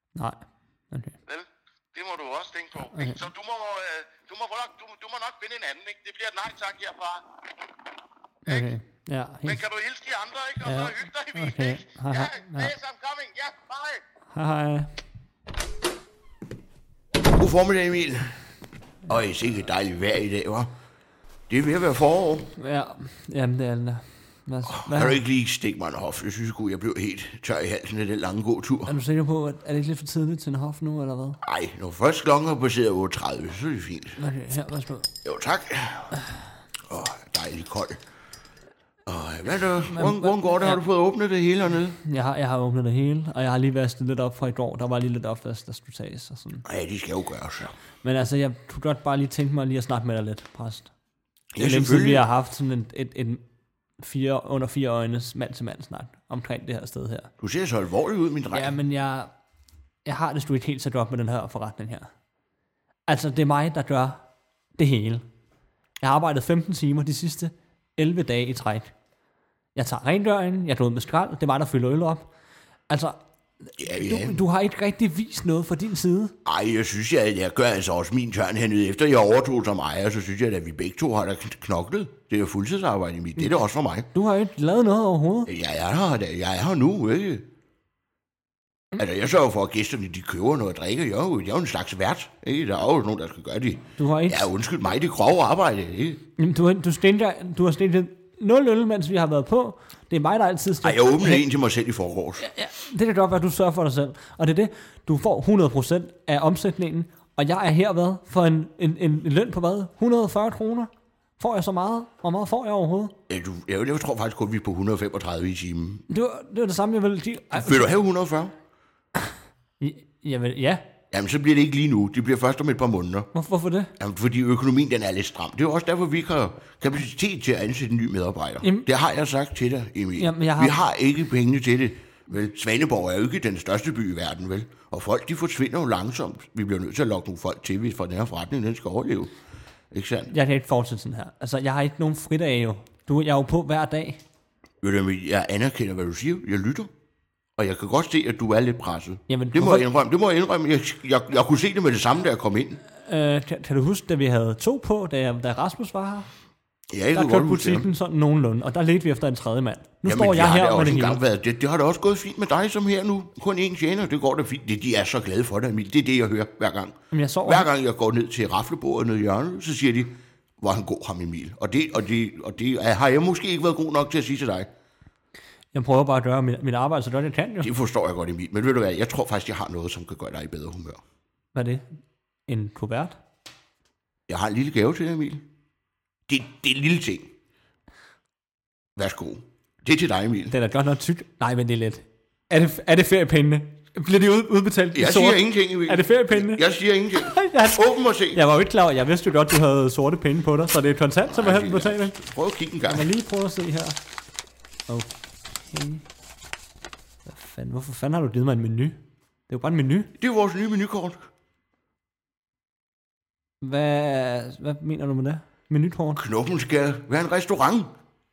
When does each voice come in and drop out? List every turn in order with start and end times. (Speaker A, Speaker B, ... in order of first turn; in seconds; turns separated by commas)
Speaker A: 0.1-1.2, Speaker B: 1.3-7.2, Speaker A: 2.9-3.2, Speaker A: 8.5-9.6, Speaker B: 9.4-14.0, Speaker A: 10.6-12.7, Speaker A: 14.3-14.9, Speaker C: 17.2-18.4, Speaker C: 19.1-20.7, Speaker C: 21.5-22.5, Speaker A: 22.6-25.2, Speaker C: 24.7-28.9, Speaker A: 28.9-31.4, Speaker C: 31.4-34.2, Speaker A: 34.2-35.1, Speaker C: 35.2-36.2, Speaker C: 36.9-38.0, Speaker C: 39.1-42.0, Speaker A: 39.8-40.8, Speaker A: 42.0-46.6, Speaker C: 46.6-47.7, Speaker A: 48.0-50.9, Speaker C: 51.5-52.3, Speaker A: 51.6-53.4, Speaker A: 54.0-57.3, Speaker C: 57.4-58.8, Speaker A: 58.5-59.3, Speaker A: 60.0-62.1, Speaker A: 63.1-64.2, Speaker A: 64.8-65.2, Speaker A: 66.0-68.9, Speaker A: 69.8-72.3, Speaker A: 72.9-76.3, Speaker C: 73.8-74.4, Speaker C: 76.4-84.1, Speaker A: 84.1-85.5, Speaker C: 85.5-87.5, Speaker C: 89.0-96.2, Speaker A: 94.0-94.5, Speaker A: 96.4-101.4, Speaker C: 100.8-102.4, Speaker A: 102.4-113.1, Speaker C: 113.3-116.0, Speaker A: 116.1-117.9, Speaker C: 117.6-118.5, Speaker A: 119.8-120.8, Speaker C: 121.1-123.3, Speaker A: 123.3-123.9, Speaker C: 124.0-139.3, Speaker A: 128.6-128.9, Speaker A: 130.2-130.8, Speaker C: 139.9-140.3, Speaker A: 140.3-144.2, Speaker C: 144.8-146.9, Speaker C: 147.6-152.8, Speaker A: 149.3-149.9, Speaker A: 152.9-156.3, Speaker C: 156.9-157.9, Speaker A: 157.1-161.2, Speaker C: 160.1-174.7, Speaker A: 167.1-167.7, Speaker A: 175.7-177.7, Speaker C: 177.6-181.0, Speaker A: 181.5-181.9, Speaker A: 182.5-183.2, Speaker C: 184.3-185.4, Speaker C: 186.3-187.3, Speaker C: 188.9-190.5, Speaker A: 190.5-196.6, Speaker C: 194.9-198.4, Speaker A: 197.1-202.1, Speaker C: 201.3-203.1, Speaker A: 202.8-203.9, Speaker A: 204.9-206.0, Speaker A: 207.3-209.0, Speaker A: 209.5-210.1, Speaker C: 210.2-211.3, Speaker A: 213.6-216.2, Speaker C: 216.2-217.9